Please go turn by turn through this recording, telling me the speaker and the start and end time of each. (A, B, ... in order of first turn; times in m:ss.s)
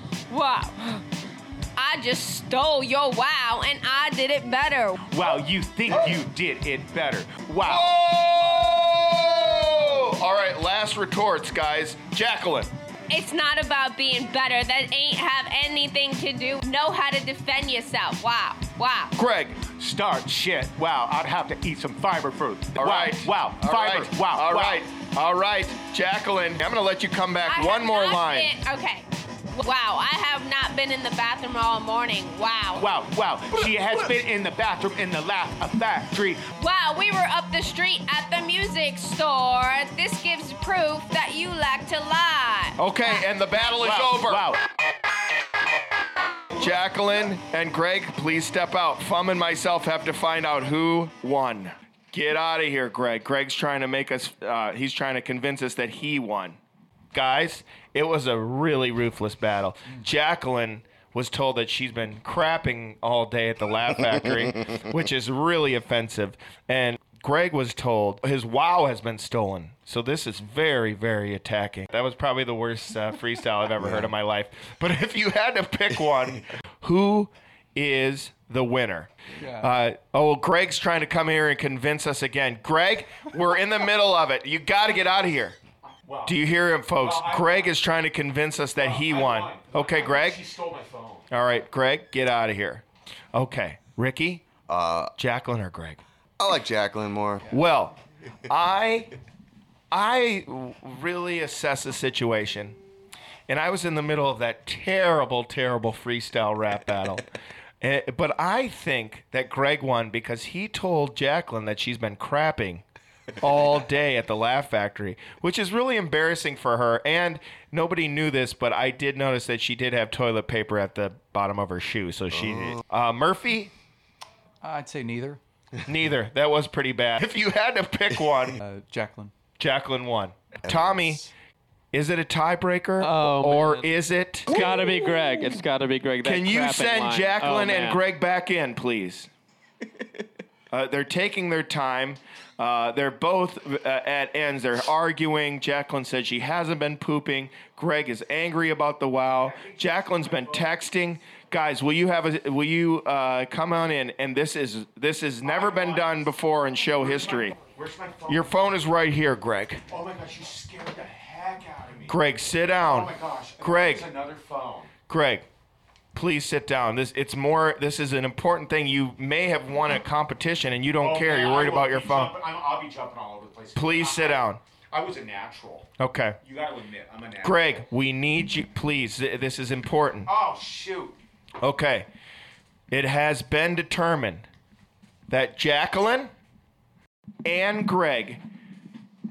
0:00.3-0:01.0 A
0:01.8-0:05.0 A
0:05.1-0:07.9 B
0:05.9-0:06.2 C
0:07.6-0:12.7 C
0:13.1-0:19.1 A
0:19.2-0:19.6 C
0:19.7-0:24.8 B
0:22.8-0:28.5 C
0:27.5-0:32.9 A
0:32.8-0:36.5 B
0:36.6-0:42.8 A
0:42.8-0:44.5 C
0:43.8-0:44.6 B
0:46.5-0:56.6 C
0:57.1-1:25.6 C
1:19.4-1:19.7 D
1:26.0-1:26.4 B
1:26.2-1:30.4 C
1:27.0-1:27.8 B
1:28.8-1:31.3 B
1:31.3-1:34.4 C
1:34.7-1:35.1 E
1:35.2-1:36.0 C
1:36.4-1:37.5 E
1:37.5-1:38.0 C
1:38.5-1:39.1 C
1:39.9-1:42.8 C
1:43.5-1:47.3 C
1:47.8-1:52.8 C
1:53.4-2:03.7 C
2:02.5-2:02.8 E
2:04.6-2:05.4 D
2:05.8-2:08.6 C
2:08.6-2:09.3 D
2:09.6-2:11.2 C
2:10.6-2:11.3 E
2:11.9-2:14.6 C
2:13.0-2:13.9 F
2:14.5-2:18.0 F
2:16.2-2:19.3 C
2:20.7-2:37.6 C
2:29.3-2:30.7 B
2:35.4-2:36.3 B
2:37.0-2:38.6 B
2:38.3-2:39.8 C
2:39.9-2:42.2 B
2:42.1-2:44.0 C
2:42.8-2:44.9 B
2:45.1-2:45.4 C
2:46.1-2:52.3 C
2:51.0-2:55.9 B
2:53.8-2:54.6 C
2:56.0-2:56.4 C
2:56.4-2:57.8 B
2:57.4-3:00.3 C
3:00.2-3:01.2 B
3:01.6-3:02.1 C
3:02.9-3:04.4 C
3:05.3-3:06.3 C
3:07.4-3:08.4 C